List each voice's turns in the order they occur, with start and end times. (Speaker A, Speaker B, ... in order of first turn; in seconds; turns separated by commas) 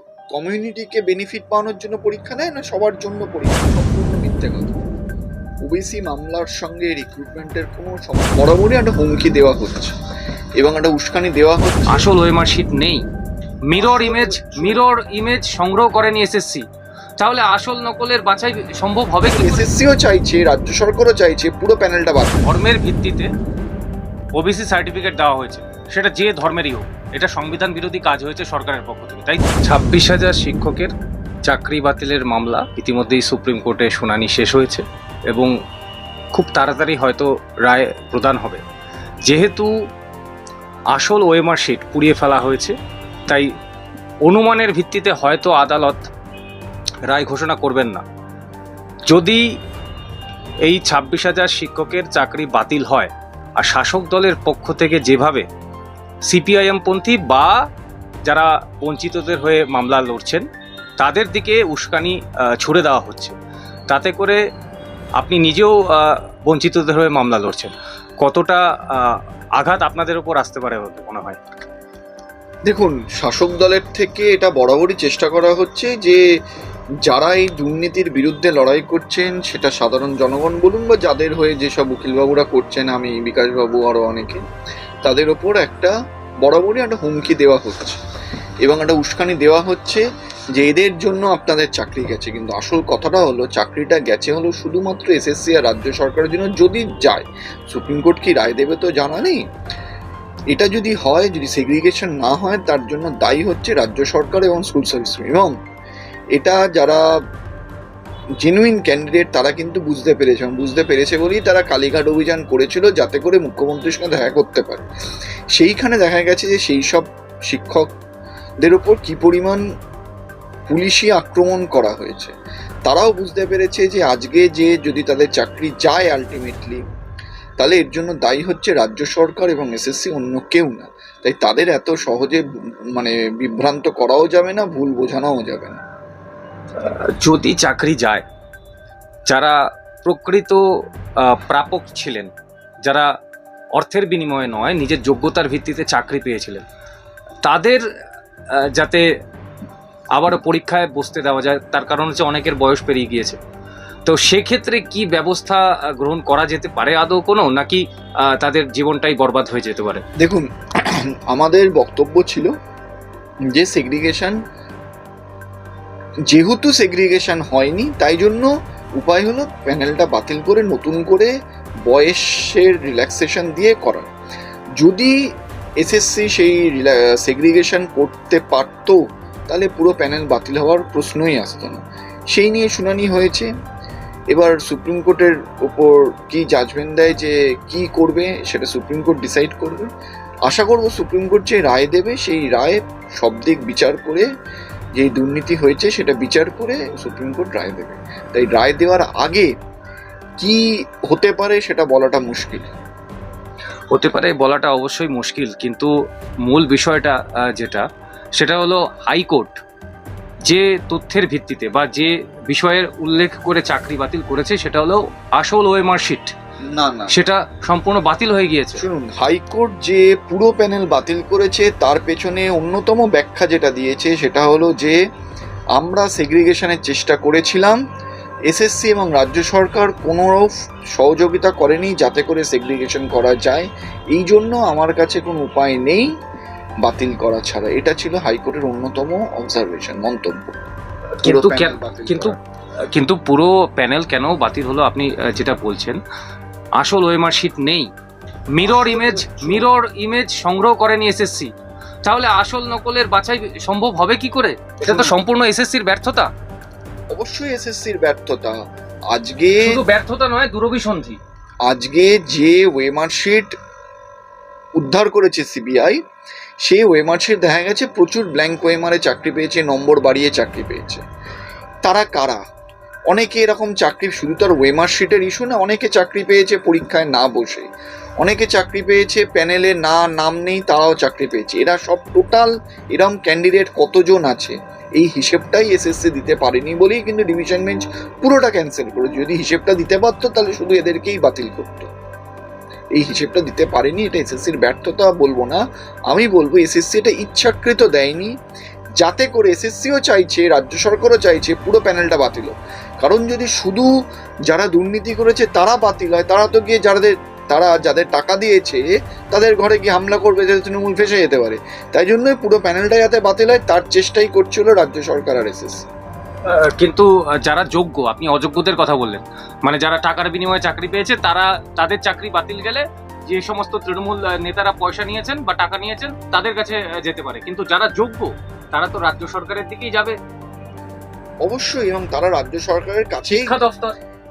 Speaker A: 0.3-4.8, Speaker A: 5.6-9.9, Speaker A: 10.6-12.1, Speaker B: 11.9-13.0, Speaker B: 13.7-16.6, Speaker A: 13.8-14.8, Speaker B: 17.2-19.6, Speaker A: 19.3-22.5, Speaker B: 22.4-23.3, Speaker B: 24.4-30.9, Speaker B: 31.4-35.5, Speaker B: 36.3-38.6, Speaker B: 39.2-39.7, Speaker B: 40.9-42.7, Speaker B: 44.2-46.1, Speaker B: 47.0-48.0, Speaker B: 49.1-49.4, Speaker B: 50.6-55.5, Speaker B: 56.3-57.5, Speaker B: 58.2-60.4, Speaker B: 61.0-63.4, Speaker B: 63.9-64.4, Speaker B: 65.2-71.4, Speaker A: 72.7-76.2, Speaker A: 77.0-84.4, Speaker A: 85.0-88.0, Speaker A: 88.6-90.0, Speaker A: 90.6-99.4, Speaker A: 100.5-105.5, Speaker A: 106.3-107.0, Speaker A: 108.4-114.8, Speaker A: 115.5-117.9, Speaker A: 118.6-119.6, Speaker A: 120.7-122.3, Speaker A: 122.8-126.8, Speaker A: 127.6-132.4, Speaker A: 132.9-135.8, Speaker B: 136.8-138.2, Speaker B: 139.3-140.6, Speaker B: 141.2-142.3, Speaker B: 142.8-143.1, Speaker B: 143.8-146.6, Speaker B: 147.4-147.8, Speaker B: 148.5-149.1, Speaker B: 150.1-153.4, Speaker B: 154.1-160.0, Speaker A: 160.2-162.5, Speaker A: 163.5-164.4, Speaker A: 166.3-171.3, Speaker A: 171.8-174.1, Speaker A: 174.8-175.1, Speaker A: 175.8-181.8, Speaker A: 182.3-183.5, Speaker A: 184.3-189.9, Speaker A: 190.5-194.2, Speaker A: 195.0-199.5, Speaker A: 200.4-202.7, Speaker B: 203.9-205.9, Speaker B: 206.4-209.6, Speaker B: 210.4-216.3, Speaker A: 216.7-217.2, Speaker B: 217.1-218.8, Speaker A: 218.8-225.0, Speaker A: 225.8-227.8, Speaker A: 228.5-236.1, Speaker A: 236.8-240.4, Speaker B: 241.2-242.3, Speaker A: 241.2-242.4, Speaker B: 242.9-246.0, Speaker B: 246.8-247.9, Speaker B: 248.6-251.5, Speaker A: 248.6-249.7, Speaker B: 252.0-256.3, Speaker A: 254.8-255.1, Speaker A: 257.1-258.6, Speaker A: 259.1-259.8, Speaker B: 259.6-261.2, Speaker A: 261.6-263.5, Speaker A: 264.8-266.0, Speaker A: 266.6-271.0, Speaker A: 271.8-272.4, Speaker A: 273.1-277.7, Speaker A: 278.2-291.9, Speaker A: 292.9-298.3, Speaker A: 299.0-303.9, Speaker A: 304.5-315.9, Speaker B: 316.5-330.1, Speaker A: 331.4-333.6, Speaker B: 333.3-333.9